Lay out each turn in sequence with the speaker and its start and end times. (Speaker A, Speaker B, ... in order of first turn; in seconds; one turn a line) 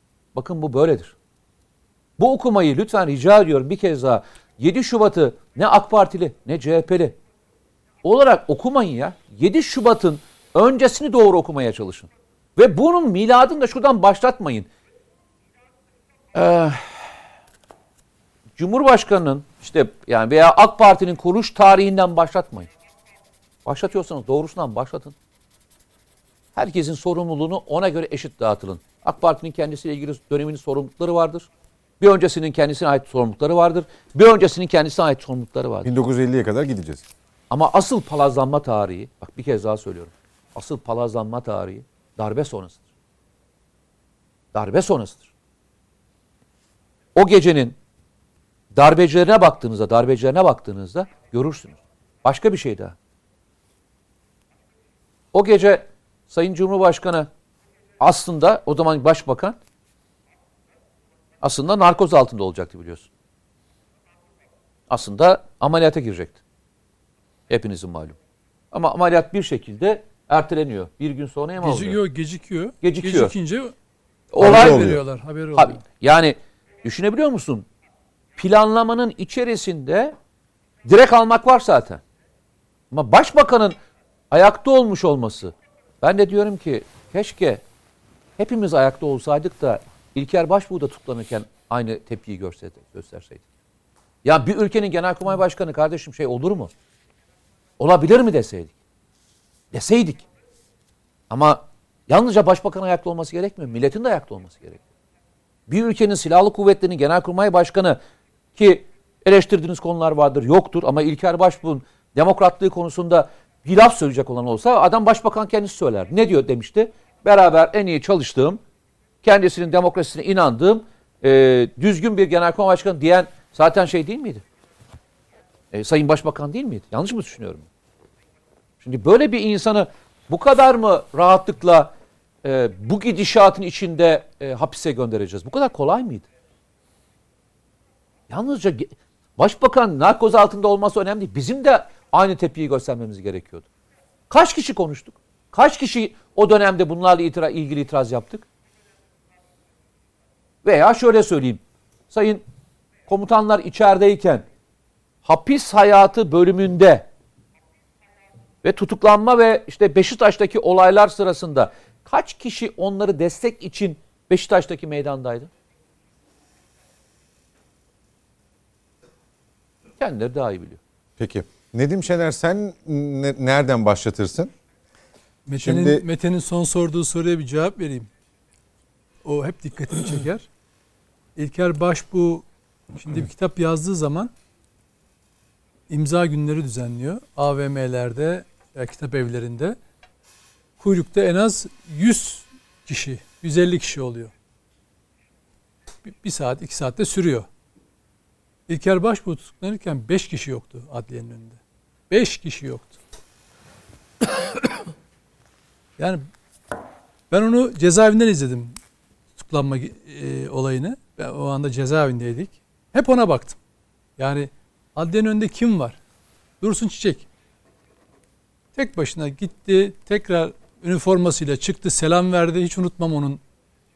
Speaker A: 0.3-1.1
Speaker A: 2.2-7.2
Speaker A: 8.0-14.7
Speaker A: 16.3-17.0
Speaker A: 18.6-22.7
Speaker A: 23.6-25.1
Speaker A: 26.5-31.5
Speaker A: 32.0-35.9
Speaker B: 35.8-37.0
Speaker A: 37.5-42.8
Speaker A: 44.5-45.3
Speaker A: 47.1-47.8
Speaker A: 48.7-52.9
Speaker A: 55.3-57.3
Speaker A: 58.0-59.6
Speaker A: 61.4-63.1
Speaker A: 64.9-66.4
Speaker A: 67.5-68.2
Speaker A: 68.7-72.0
Speaker C: 71.6-73.7
Speaker A: 72.8-73.3
Speaker A: 74.3-75.0
Speaker C: 74.4-75.8
Speaker B: 74.4-75.0
Speaker A: 75.5-77.7
Speaker A: 78.3-80.2
Speaker A: 80.8-82.0
Speaker A: 82.9-83.8
Speaker A: 84.3-87.6
Speaker A: 88.4-93.4
Speaker A: 94.2-96.7
Speaker A: 97.8-98.7
Speaker A: 99.7-100.2
Speaker A: 101.3-104.8
Speaker A: 105.7-108.0
Speaker A: 108.5-118.6
Speaker A: 119.2-124.4
Speaker A: 125.7-127.7
Speaker A: 128.8-131.9
Speaker A: 132.4-136.2
Speaker A: 138.3-143.6
Speaker A: 144.3-148.4
Speaker A: 150.6-152.4
Speaker A: 153.1-154.4
Speaker A: 155.2-157.1
Speaker A: 158.6-165.5
Speaker A: 170.0-170.8
Speaker B: 171.2-174.5
Speaker C: 175.5-178.1
Speaker B: 175.6-176.0
Speaker C: 179.2-180.4
Speaker C: 181.3-184.3
Speaker C: 185.9-189.8
Speaker C: 190.8-194.3
Speaker C: 196.0-197.5
Speaker C: 198.7-201.6
Speaker C: 202.1-202.9
Speaker C: 206.0-206.2
Speaker C: 207.3-208.7
Speaker C: 209.4-213.6
Speaker C: 214.2-215.9
Speaker C: 216.6-217.2
Speaker C: 218.7-223.4